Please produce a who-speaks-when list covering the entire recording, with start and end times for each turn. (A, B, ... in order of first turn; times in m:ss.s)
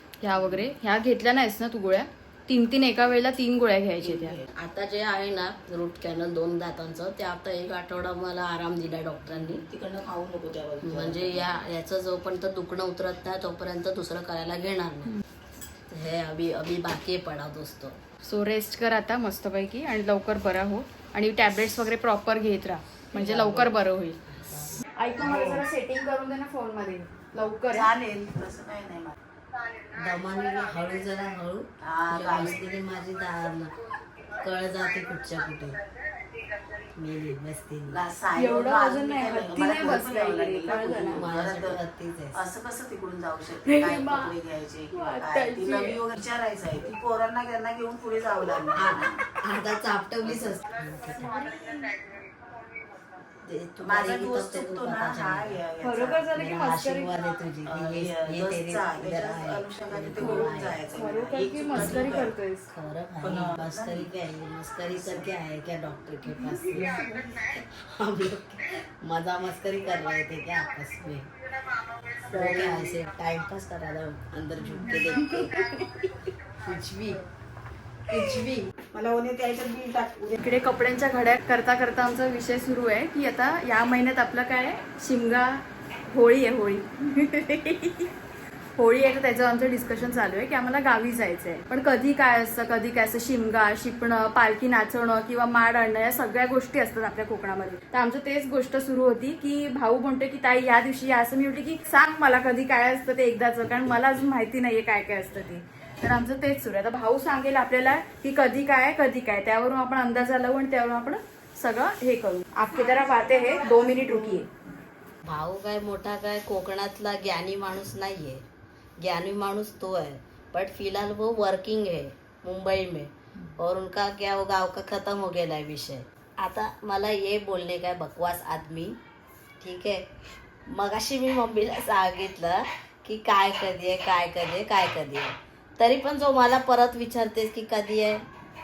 0:00.2-0:04.4 A
0:04.0-0:04.5 B
0:04.6-0:09.6 C
0:09.3-0:11.6 B
0:10.8-0:15.2 C
0:15.9-0:18.0 C
0:18.2-0:24.2 A
0:23.1-0:23.7 C
0:24.3-0:24.8 C
0:25.0-0:27.9 A
0:25.2-0:25.6 B
0:27.7-0:29.2 B
0:29.9-0:33.8 C
0:31.8-0:32.6 B
0:34.4-0:35.8 C
0:37.0-0:38.0 C
0:37.9-0:41.8 B
0:38.4-0:41.3 A
0:41.1-0:42.4 C
0:42.3-0:49.2 B
0:43.6-0:44.3 A
0:44.9-0:46.0 A
0:48.7-0:51.3 C
0:50.2-0:50.6 B
0:51.1-0:52.0 A
0:53.4-0:55.6 C
0:53.8-0:56.3 B
0:55.8-0:57.1 A
0:56.3-1:00.8 C
0:57.6-1:02.3 B
1:00.2-1:02.7 A
1:01.7-1:02.2 C
1:02.7-1:11.3 C
1:03.2-1:04.1 B
1:04.9-1:05.3 B
1:06.5-1:06.8 A
1:12.3-1:12.8 A
1:12.3-1:16.0 C
1:14.6-1:15.5 A
1:16.6-1:17.2 C
1:18.1-1:18.7 C
1:18.8-1:20.5 B
1:20.4-1:28.1 A
1:28.8-1:54.5 A
1:53.0-1:54.4 B
1:55.2-1:58.4 C
1:59.0-2:09.0 C
2:09.6-2:10.1 C
2:10.7-2:18.2 C